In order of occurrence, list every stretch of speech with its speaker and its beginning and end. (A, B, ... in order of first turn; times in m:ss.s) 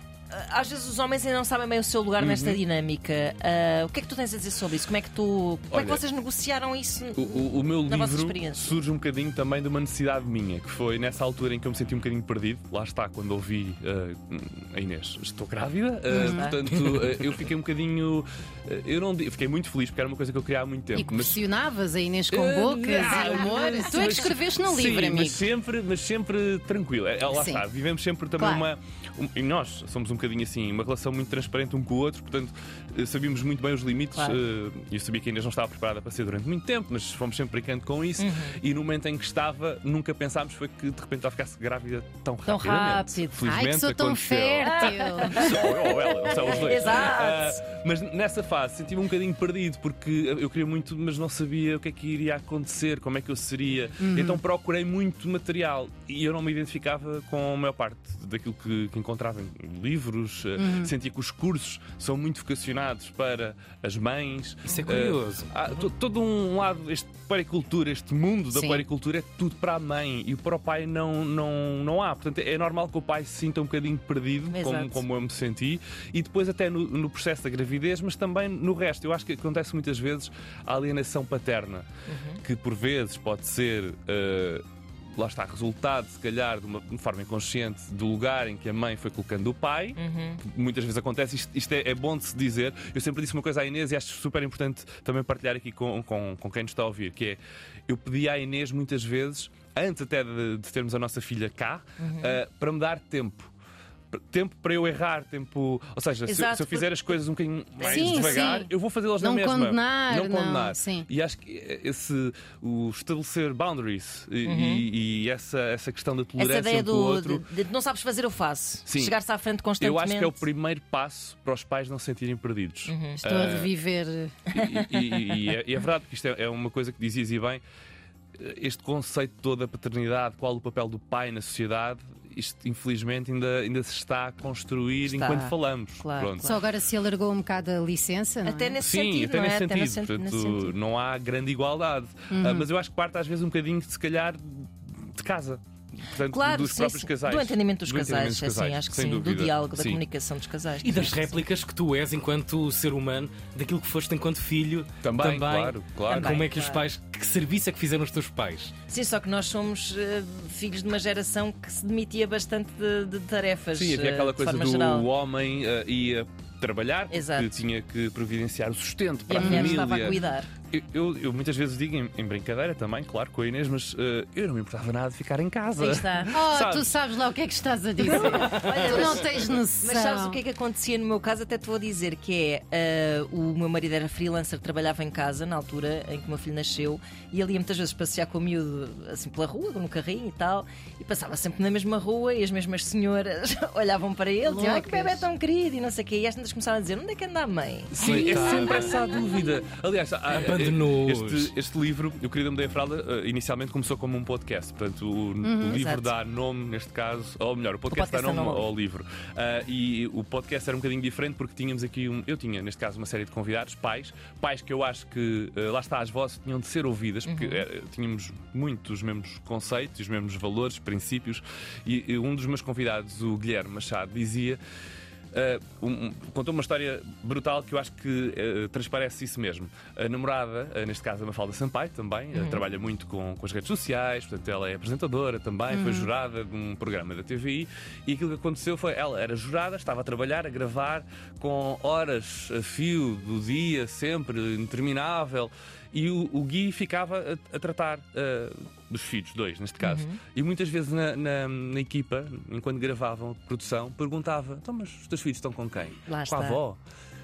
0:00.3-0:08.8 A
0:02.2-0:02.6 B
0:05.7-0:06.0 B
0:07.2-0:21.4 B
0:16.1-0:16.5 C
0:16.2-0:16.6 A
0:20.9-0:25.4 C
0:22.3-1:21.9 B
0:23.1-0:24.3 A
0:27.3-0:27.6 C
0:28.4-0:28.7 C
0:34.1-0:34.4 A
0:38.2-0:38.6 A
0:42.4-0:43.3 A
0:43.3-0:45.6 C
0:44.7-0:47.6 A
0:54.0-0:54.4 C
1:00.6-1:00.9 C
1:04.6-1:05.5 D
1:08.5-1:08.8 C
1:14.5-1:15.0 A
1:22.1-1:22.4 A
1:22.4-1:24.6 B
1:25.2-1:43.5 B
1:30.0-1:30.4 A
1:42.0-1:42.4 A
1:44.1-1:57.4 B
1:46.3-1:47.1 A
1:47.8-1:48.6 A
1:47.8-1:51.1 C
1:54.4-1:54.9 A
1:56.4-2:00.4 A
1:58.9-1:59.2 B
1:59.8-2:03.7 B
2:02.9-2:03.2 A
2:03.2-2:04.4 C
2:04.5-2:07.6 B
2:04.7-2:05.3 A
2:08.4-2:16.6 B
2:15.0-2:16.6 A
2:16.4-2:18.8 C
2:18.4-2:20.8 A
2:18.8-2:30.0 B
2:22.3-2:22.7 C
2:26.3-2:31.3 A
2:30.8-2:38.7 D
2:35.0-2:36.4 B
2:36.1-2:36.8 A
2:38.9-2:45.1 A
2:43.7-2:56.9 B
2:47.1-2:47.6 A
2:49.3-2:50.5 A
2:49.4-2:50.2 C
2:55.8-2:56.3 A
2:56.3-3:00.4 C
2:58.0-3:18.7 A
3:14.4-3:15.2 C
3:17.9-3:18.9 D
3:17.9-3:44.6 B
3:18.0-3:18.5 C
3:20.3-3:21.5 D
3:25.4-3:25.8 C
3:25.7-3:26.1 A
3:27.9-3:28.7 A
3:37.2-3:37.6 A
3:45.3-4:16.8 B
3:52.3-3:52.6 A
3:55.7-3:56.1 C
4:09.8-4:10.2 A
4:16.1-4:16.6 A